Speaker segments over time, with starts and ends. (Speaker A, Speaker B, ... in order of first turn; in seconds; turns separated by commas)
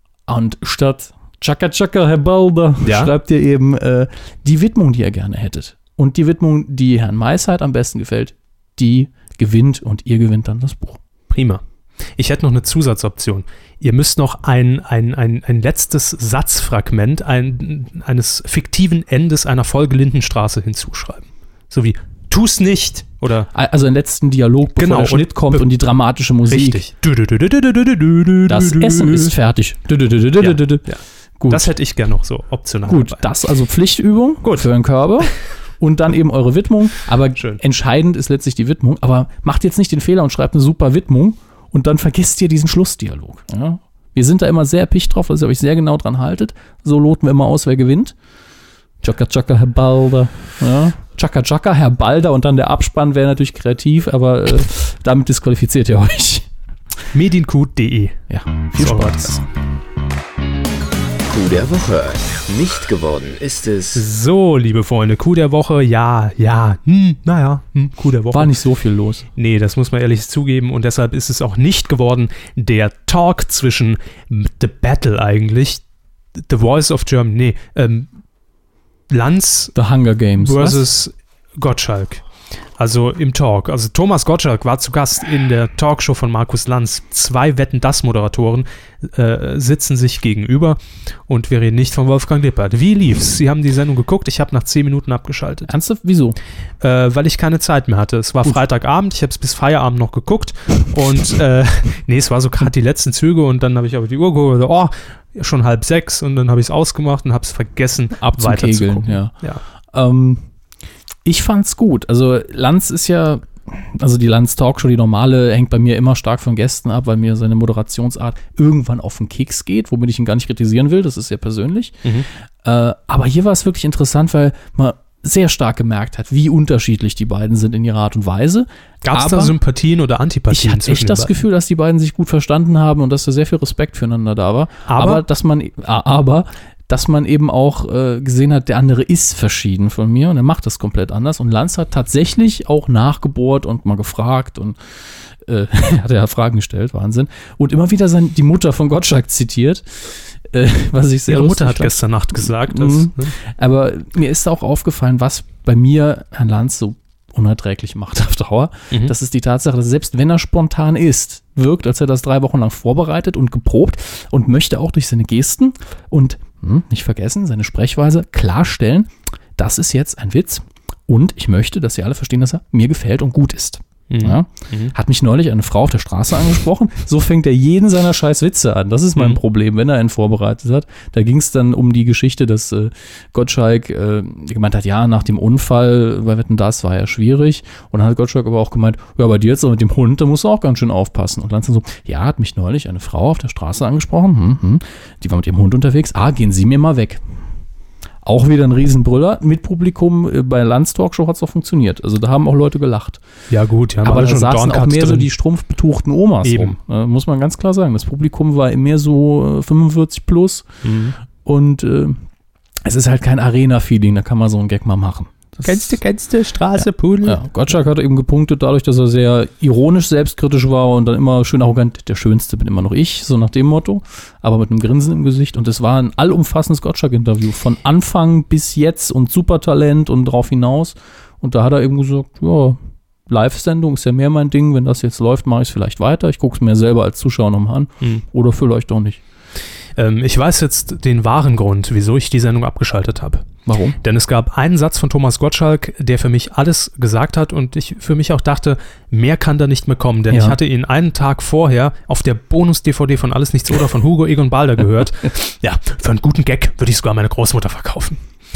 Speaker A: 0.3-11.0, Speaker B: 2.8-3.1, Speaker B: 11.3-11.6, Speaker B: 12.2-23.5, Speaker A: 23.5-26.8, Speaker B: 24.8-25.7, Speaker B: 26.4-29.4, Speaker A: 28.5-30.9, Speaker B: 30.4-33.2, Speaker A: 31.4-31.7, Speaker A: 32.9-48.1, Speaker A: 49.0-56.5, Speaker B: 57.1-58.2, Speaker A: 58.3-59.4, Speaker B: 58.7-59.4, Speaker C: 61.3-64.0, Speaker B: 63.9-68.5, Speaker A: 68.3-69.2, Speaker B: 69.3-75.8, Speaker B: 76.4-78.1, Speaker B: 79.1-79.7, Speaker A: 79.7-80.8, Speaker B: 80.3-82.2, Speaker B: 82.8-95.7, Speaker A: 95.7-96.4, Speaker B: 96.8-109.6, Speaker A: 108.2-109.3, Speaker A: 109.9-110.5, Speaker A: 111.2-122.1, Speaker A: 122.6-129.6, Speaker B: 129.0-131.3, Speaker A: 130.5-144.8, Speaker B: 134.9-135.2, Speaker A: 145.4-197.2, Speaker B: 151.3-153.3, Speaker B: 174.1-174.9, Speaker A: 198.2-203.2, Speaker B: 203.5-205.3, Speaker A: 204.0-210.7, Speaker B: 206.4-206.7, Speaker B: 210.8-211.1, Speaker A: 211.4-212.2, Speaker A: 212.8-216.0, Speaker B: 215.6-217.4, Speaker A: 216.8-239.2, Speaker B: 239.9-243.4, Speaker A: 243.7-244.0, Speaker B: 244.0-258.2, Speaker A: 250.3-250.6